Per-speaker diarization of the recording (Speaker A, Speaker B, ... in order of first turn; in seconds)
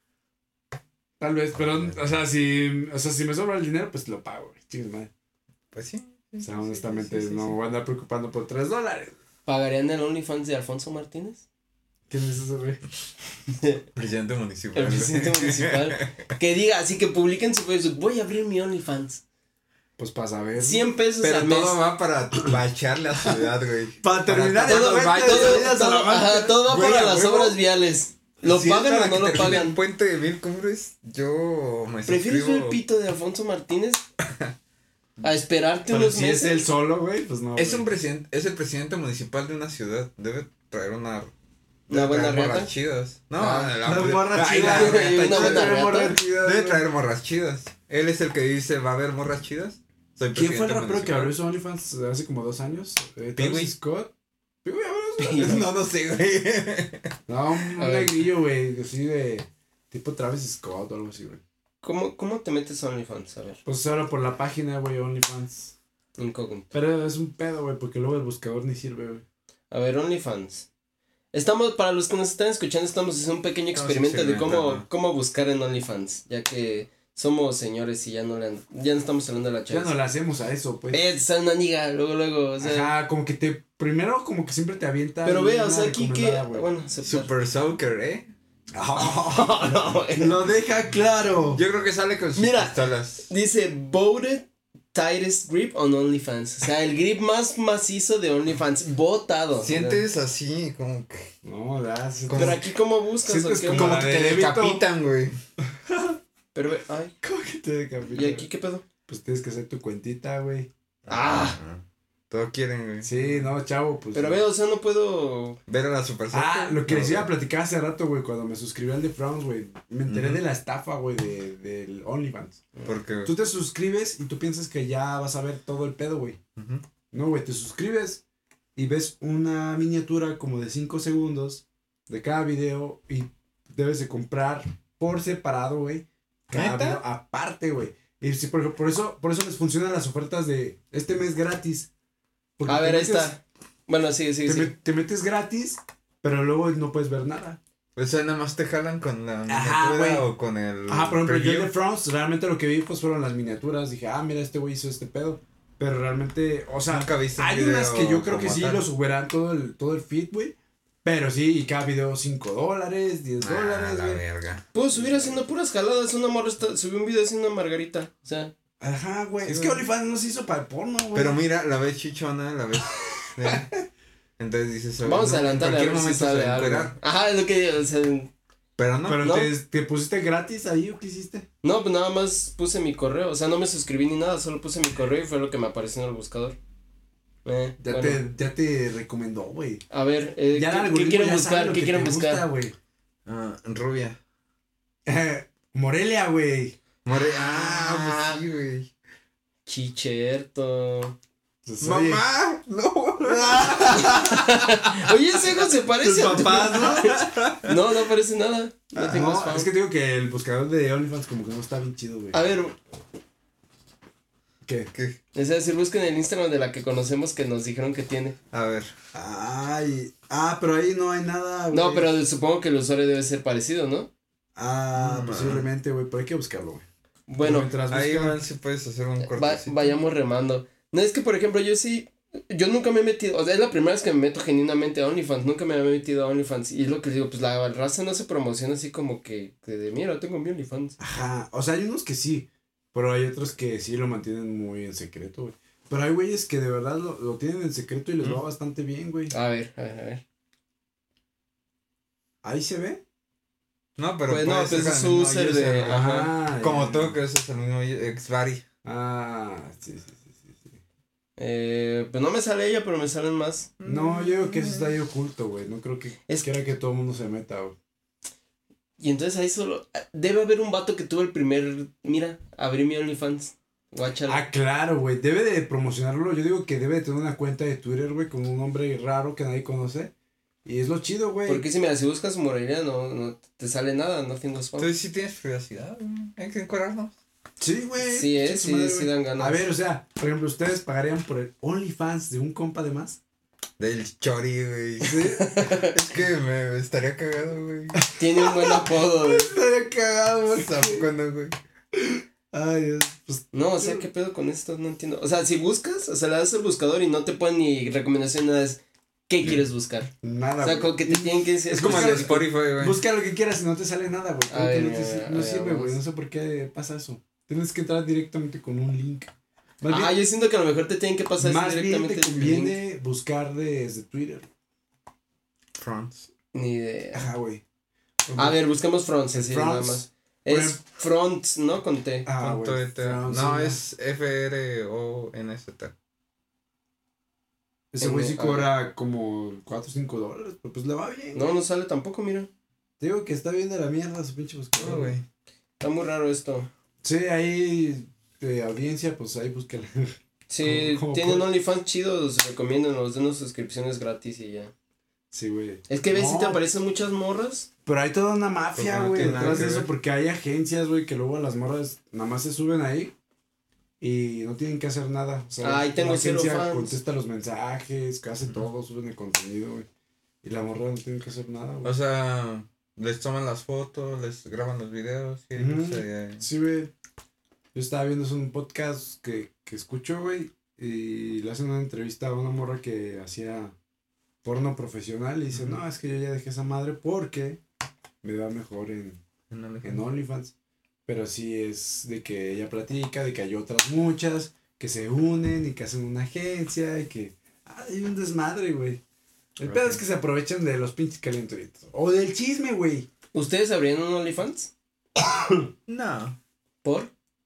Speaker A: 1.2-5.1, 6.4-9.2, 12.1-12.8, 20.0-20.9, 24.0-26.6, 35.9-37.9, 43.8-46.8, 50.3-54.1, 54.6-55.7, 57.3-61.4, 63.6-65.7, 66.7-69.2, 79.7-81.0, 82.6-86.7, 88.7-91.6, 101.4-102.6, 103.2-104.8, 105.9-106.2, 107.2-108.5, 109.1-110.7, 113.0-114.4, 116.3-122.6, 123.2-126.4, 127.1-128.2, 128.8-141.9, 142.6-143.3, 144.4-147.6, 149.5-150.2, 150.9-164.2, 164.9-165.4, 168.8-171.4, 179.1-181.4, 187.8-189.8, 190.5-192.7, 195.1-196.8, 201.6-202.2, 203.2-204.5, 206.0-207.2, 208.9-212.4, 214.6-214.9, 219.1-222.1, 224.6-226.8, 227.4-228.4, 241.0-249.3, 252.4-253.0, 255.8-257.1, 258.8-260.8, 263.8-267.8, 274.3-280.1, 280.6-281.6, 287.6-293.2, 295.0-295.5, 297.9-301.1, 301.9-304.1, 310.2-319.3, 319.8-320.1, 321.4-324.5, 327.1-327.6, 328.3-328.6, 329.3-330.8, 332.2-333.8, 337.9-341.5, 343.0-345.1, 347.0-351.5, 355.3-356.6, 357.9-363.1, 364.0-369.9, 370.4-371.9, 375.6-376.9, 377.7-383.7, 384.4-387.6, 388.2-389.2, 389.8-390.5, 391.1-399.0, 399.6-403.1
Speaker B: 1.6-2.1, 5.7-7.6, 13.9-16.1, 21.2-25.7, 26.7-27.6, 28.4-32.8, 37.5-41.3, 41.9-51.3, 53.4-53.7, 55.3-57.1, 73.7-74.8, 87.0-88.3, 91.5-93.3, 99.6-101.3, 102.3-102.6, 103.7-105.3, 111.1-113.5, 115.7-117.3, 120.1-120.4, 122.8-123.3, 126.6-126.8, 136.5-137.0, 147.9-151.7, 156.9-158.8, 163.4-164.6, 169.4-169.8, 171.1-173.8, 174.4-176.9, 178.8-179.3, 193.2-194.2, 197.0-198.9, 201.8-204.1, 207.1-207.7, 218.5-218.9, 224.9-225.7, 227.9-230.0, 254.0-258.6, 263.8-265.0, 284.8-287.1, 293.8-298.1, 300.5-301.5, 311.7-313.0, 325.8-326.3, 332.4-335.9, 344.8-345.2, 358.8-359.9, 371.8-376.4, 385.5-385.8, 389.5-390.0, 399.6-400.0, 405.9-406.4
Speaker C: 9.4-11.4, 14.7-19.2, 20.6-21.8, 24.6-29.8, 32.1-34.0, 35.2-36.7, 41.9-42.7, 43.4-46.2, 55.2-55.6, 57.8-58.1, 61.8-63.6, 66.2-66.7, 69.7-70.7, 71.3-79.9, 80.9-82.9, 85.2-87.3, 89.0-90.4, 92.3-100.0, 102.3-104.1, 106.5-107.1, 108.1-108.8, 111.1-111.6, 114.1-115.6, 142.7-144.7, 164.7-168.5, 175.0-178.3, 179.2-179.5, 181.6-186.6, 187.4-188.2, 189.9-192.4, 197.5-198.4, 199.7-201.2, 203.7-209.7, 212.3-212.7, 215.3-218.3, 221.7-224.1, 227.3-227.7, 229.2-241.0, 249.3-250.2, 254.3-256.3, 261.4-263.7, 269.0-274.4, 281.4-284.9, 288.0-289.6, 295.1-295.9, 298.1-299.5, 303.5-310.1, 310.6-312.4, 314.5-316.0, 319.9-322.8, 326.5-327.3, 328.4-332.3, 338.0-338.7, 341.3-342.5, 344.8-345.1, 345.8-346.7, 350.5-354.7, 355.9-357.7, 365.6-366.9, 403.3-404.7, 406.8-407.1